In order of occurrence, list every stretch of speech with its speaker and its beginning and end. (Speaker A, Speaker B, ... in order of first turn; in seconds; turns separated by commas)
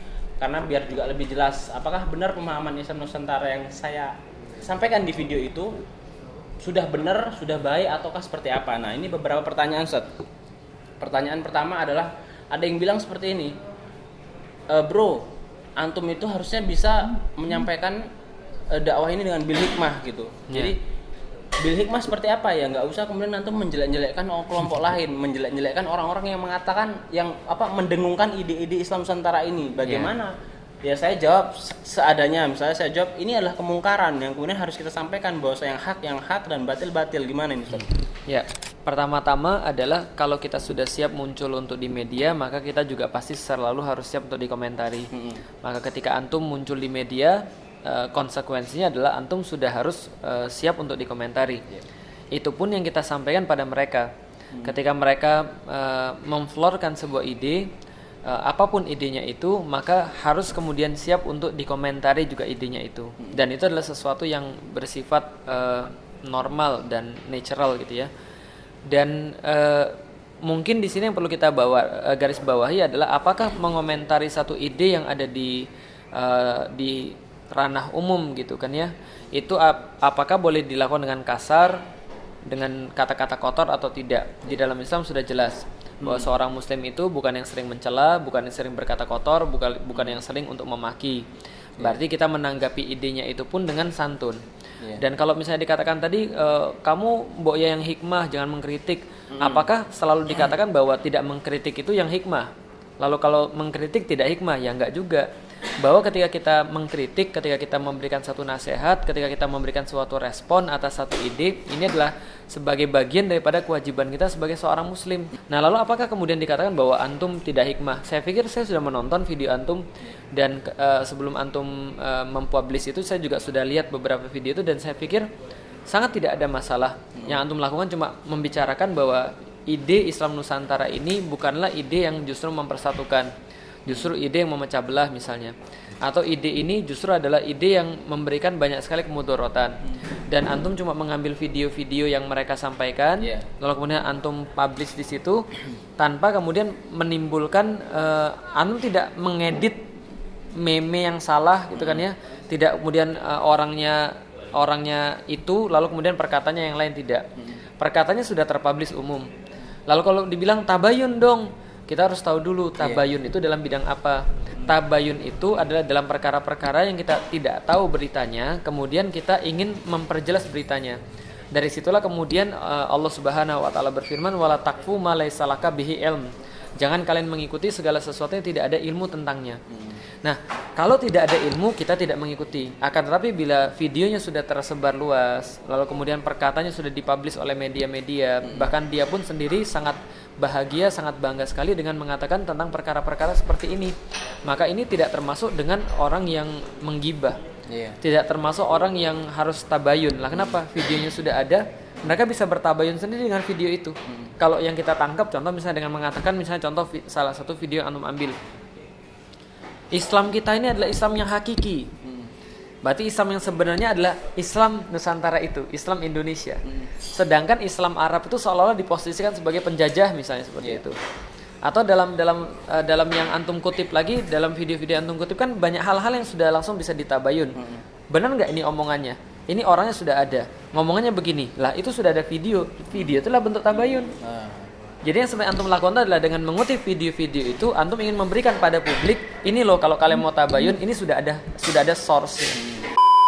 Speaker A: 0.4-5.7, Speaker A: 6.6-10.1, Speaker A: 11.0-13.5, Speaker A: 14.7-15.2, Speaker A: 15.8-18.0, Speaker A: 18.7-20.8, Speaker A: 21.6-30.3, Speaker B: 29.9-30.1, Speaker A: 30.8-38.0, Speaker B: 38.3-45.1, Speaker A: 45.1-45.4, Speaker B: 45.6-51.6, Speaker B: 52.3-54.1, Speaker B: 54.6-57.7, Speaker B: 58.2-68.1, Speaker B: 68.9-81.8, Speaker B: 82.5-91.2, Speaker A: 86.0-86.3, Speaker B: 91.8-94.4, Speaker B: 94.9-105.3, Speaker A: 99.3-99.7, Speaker B: 105.8-125.3, Speaker B: 125.9-133.3, Speaker B: 133.8-145.4, Speaker B: 146.0-149.8, Speaker B: 150.6-157.3, Speaker A: 151.7-152.0, Speaker B: 157.8-159.2, Speaker B: 159.9-171.0, Speaker A: 162.8-163.0, Speaker B: 171.5-179.6, Speaker A: 179.7-180.0, Speaker B: 180.2-197.4, Speaker A: 188.4-188.7, Speaker A: 197.7-198.0, Speaker B: 198.0-208.3, Speaker B: 209.9-211.9, Speaker A: 212.0-212.3, Speaker B: 212.8-220.9, Speaker A: 220.6-220.8, Speaker B: 221.6-227.6, Speaker A: 227.6-227.8, Speaker B: 228.1-234.1, Speaker A: 234.2-234.7, Speaker B: 235.0-242.7